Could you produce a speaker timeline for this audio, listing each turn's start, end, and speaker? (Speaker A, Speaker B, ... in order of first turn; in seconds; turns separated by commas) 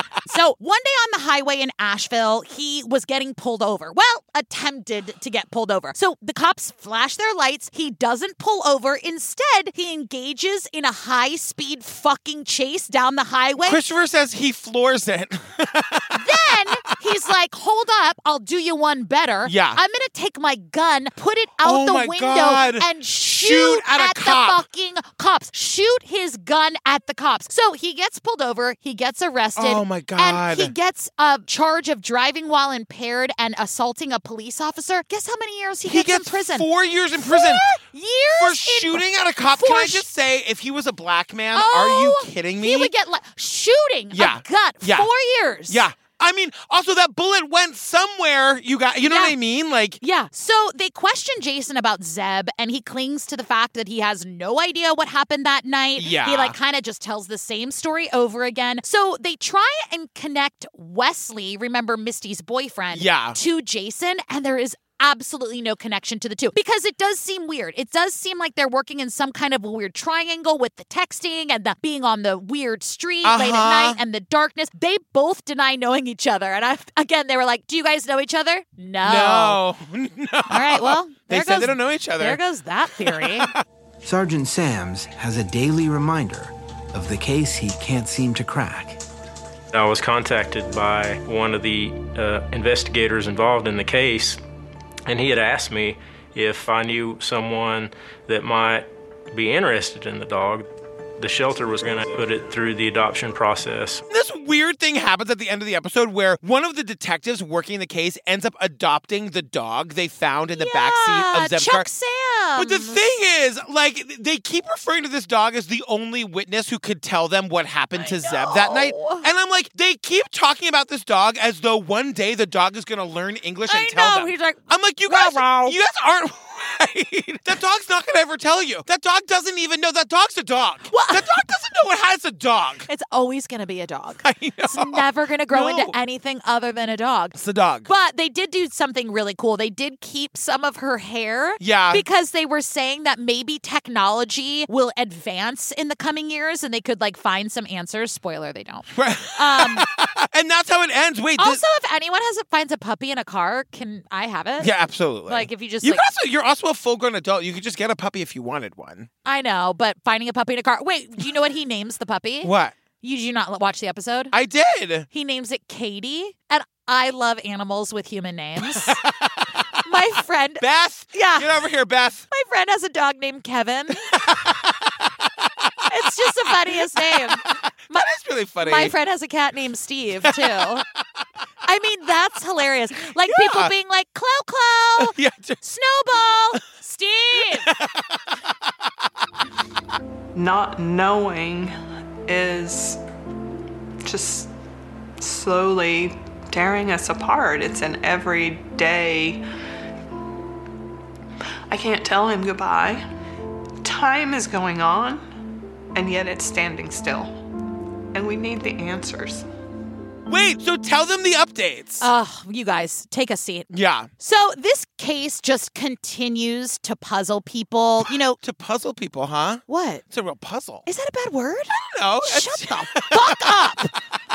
Speaker A: 0.3-13.8, Speaker B: 13.6-16.9, Speaker A: 16.1-40.1, Speaker B: 19.4-19.8, Speaker B: 21.6-24.6, Speaker B: 29.6-30.7, Speaker B: 35.9-37.7, Speaker B: 38.4-42.9, Speaker A: 41.5-45.8, Speaker B: 44.1-45.1, Speaker B: 45.7-50.0, Speaker A: 49.0-49.4, Speaker A: 50.0-79.6, Speaker B: 56.0-56.5, Speaker B: 62.9-63.4, Speaker B: 73.2-74.0, Speaker B: 79.0-82.4, Speaker A: 80.5-83.5, Speaker B: 82.9-83.6, Speaker C: 84.0-89.0, Speaker D: 89.7-94.4, Speaker D: 95.1-100.7, Speaker D: 101.2-104.0, Speaker B: 104.1-111.9, Speaker A: 110.5-113.0, Speaker B: 112.6-132.9, Speaker A: 118.0-119.3, Speaker A: 123.7-125.8, Speaker A: 130.9-131.4, Speaker A: 132.9-149.8, Speaker B: 134.2-135.9, Speaker B: 137.4-137.9, Speaker B: 141.6-142.0, Speaker B: 148.9-151.6, Speaker A: 151.4-154.7, Speaker B: 154.6-159.1, Speaker A: 155.3-156.0, Speaker A: 159.2-162.5, Speaker B: 162.4-162.7, Speaker A: 163.0-164.3, Speaker B: 164.3-165.1, Speaker A: 165.1-169.0, Speaker B: 168.6-169.5, Speaker A: 169.8-171.7, Speaker B: 170.6-172.2, Speaker A: 172.3-174.3, Speaker B: 173.9-178.9, Speaker A: 175.9-178.1, Speaker A: 178.6-180.9, Speaker B: 180.2-180.7, Speaker A: 181.7-187.7, Speaker B: 183.2-183.7, Speaker B: 185.0-185.6, Speaker B: 187.4-188.2, Speaker E: 190.3-193.0, Speaker E: 194.0-194.5, Speaker E: 195.2-199.4, Speaker E: 201.7-203.1, Speaker E: 203.8-205.2, Speaker E: 205.9-207.3, Speaker E: 208.1-209.5, Speaker B: 210.3-212.1, Speaker A: 212.0-218.4, Speaker B: 213.7-214.1, Speaker B: 218.1-220.9, Speaker A: 219.7-220.1, Speaker A: 220.9-223.9, Speaker B: 221.7-223.9